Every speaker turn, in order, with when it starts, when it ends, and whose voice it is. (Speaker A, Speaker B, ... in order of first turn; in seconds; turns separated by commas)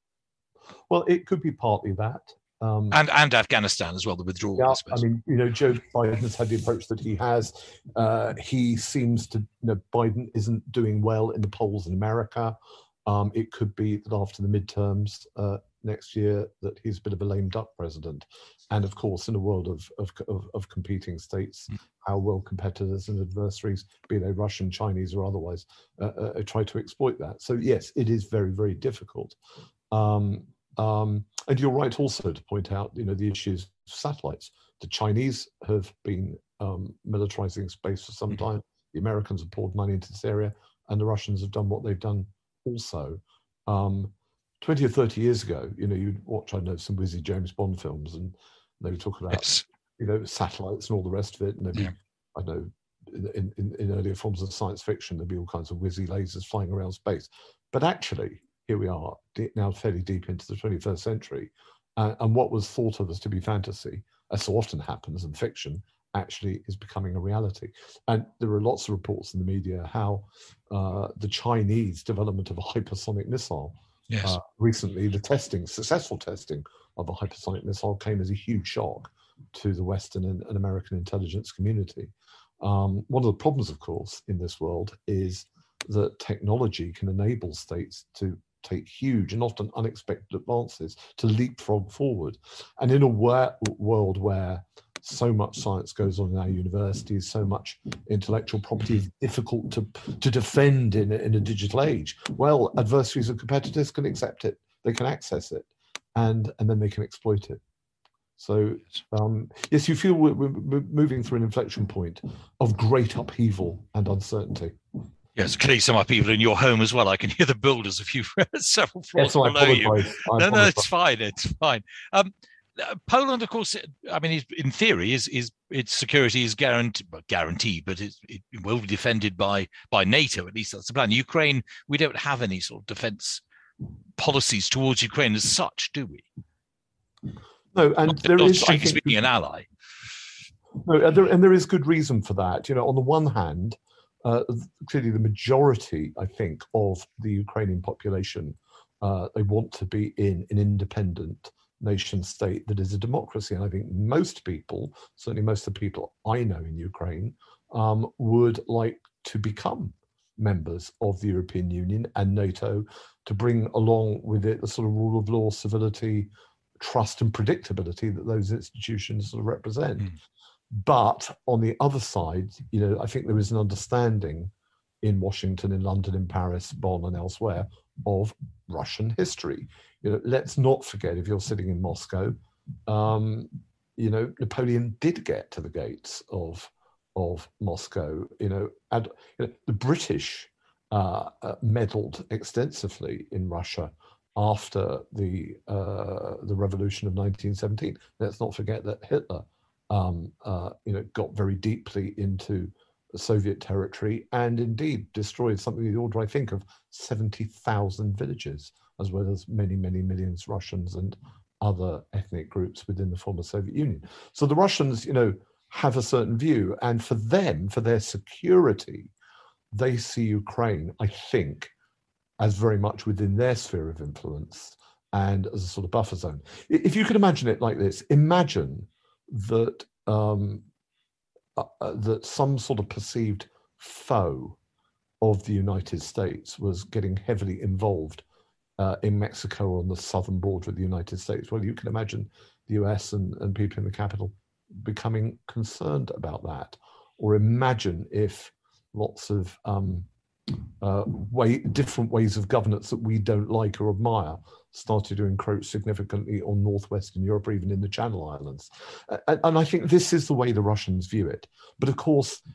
Speaker A: 0.9-3.0, Speaker B: 2.9-5.0, Speaker A: 4.6-29.4, Speaker A: 29.9-107.6, Speaker B: 49.3-49.6, Speaker B: 74.1-74.3, Speaker A: 108.4-114.8, Speaker B: 115.3-133.4, Speaker A: 119.1-120.8, Speaker B: 134.2-136.3, Speaker A: 137.7-139.2, Speaker B: 138.1-139.7, Speaker A: 140.8-170.1, Speaker A: 170.7-219.1, Speaker A: 219.7-221.7, Speaker A: 222.4-230.6, Speaker A: 231.5-234.6, Speaker A: 235.2-238.2, Speaker A: 238.8-250.1, Speaker A: 250.8-262.4